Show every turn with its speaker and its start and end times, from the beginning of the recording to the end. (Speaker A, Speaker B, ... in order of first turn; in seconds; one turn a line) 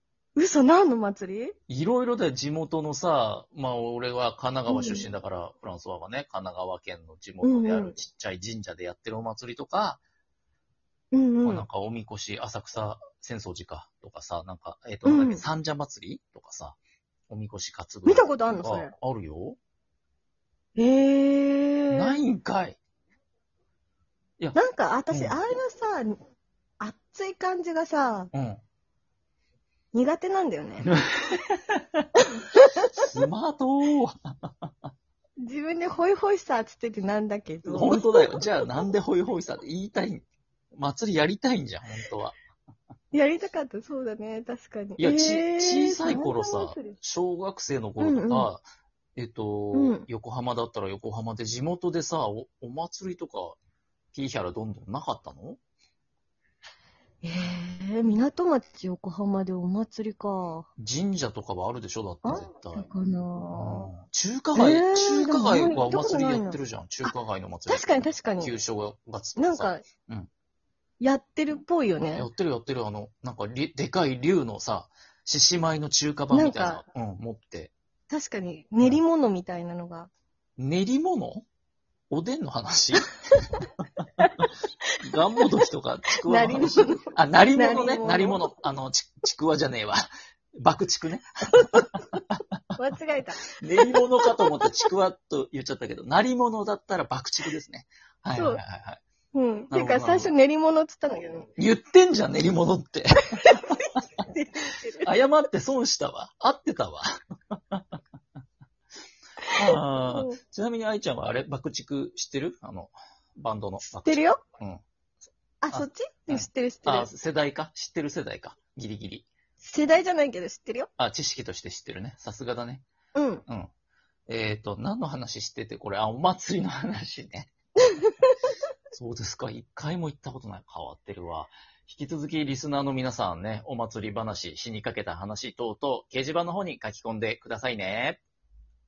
Speaker A: 0.4-1.6
Speaker B: 1.7-10.0
Speaker A: 4.7-5.1
Speaker A: 7.4-7.9
Speaker A: 11.1-11.6
Speaker B: 11.4-16.8
Speaker A: 15.1-15.4
Speaker B: 17.3-19.6
Speaker A: 18.0-18.9
Speaker A: 20.8-22.1
Speaker B: 21.9-22.8
Speaker A: 24.5-26.2
Speaker B: 25.1-25.4
Speaker A: 26.8-28.3
Speaker B: 28.3-28.6
Speaker A: 29.9-30.9
Speaker B: 30.9-32.0
Speaker A: 32.3-32.9
Speaker B: 32.9-34.7
Speaker A: 35.4-38.4
Speaker B: 37.7-42.4
Speaker A: 43.1-47.0
Speaker B: 45.0-48.6
Speaker A: 48.0-48.5
Speaker B: 49.1-53.6
Speaker A: 49.7-50.0
Speaker B: 54.1-55.6
Speaker A: 57.2-60.7
Speaker B: 60.8-62.9
Speaker A: 62.2-63.9
Speaker B: 63.5-70.3
Speaker A: 64.5-67.1
Speaker A: 67.7-68.5
Speaker A: 69.4-69.8
Speaker A: 71.0-72.3
Speaker B: 72.1-77.7
Speaker A: 76.3-76.8
Speaker A: 78.1-80.1
Speaker B: 80.6-81.5
Speaker B: 82.1-83.1
Speaker B: 85.0-90.0
Speaker A: 86.2-88.4
Speaker B: 90.6-92.6
Speaker A: 91.5-92.0
Speaker A: 92.8-94.6
Speaker B: 93.6-99.0
Speaker A: 98.3-98.6
Speaker A: 99.3-101.5
Speaker B: 99.7-100.3
Speaker B: 101.6-103.6
Speaker A: 103.4-105.1
Speaker B: 105.0-108.0
Speaker A: 109.4-110.4
Speaker B: 109.6-114.8
Speaker A: 114.0-114.4
Speaker A: 115.6-117.1
Speaker B: 115.7-119.3
Speaker A: 119.6-120.9
Speaker B: 121.0-122.8
Speaker A: 123.1-123.4
Speaker B: 124.3-127.5
Speaker A: 128.0-128.3
Speaker B: 128.9-138.2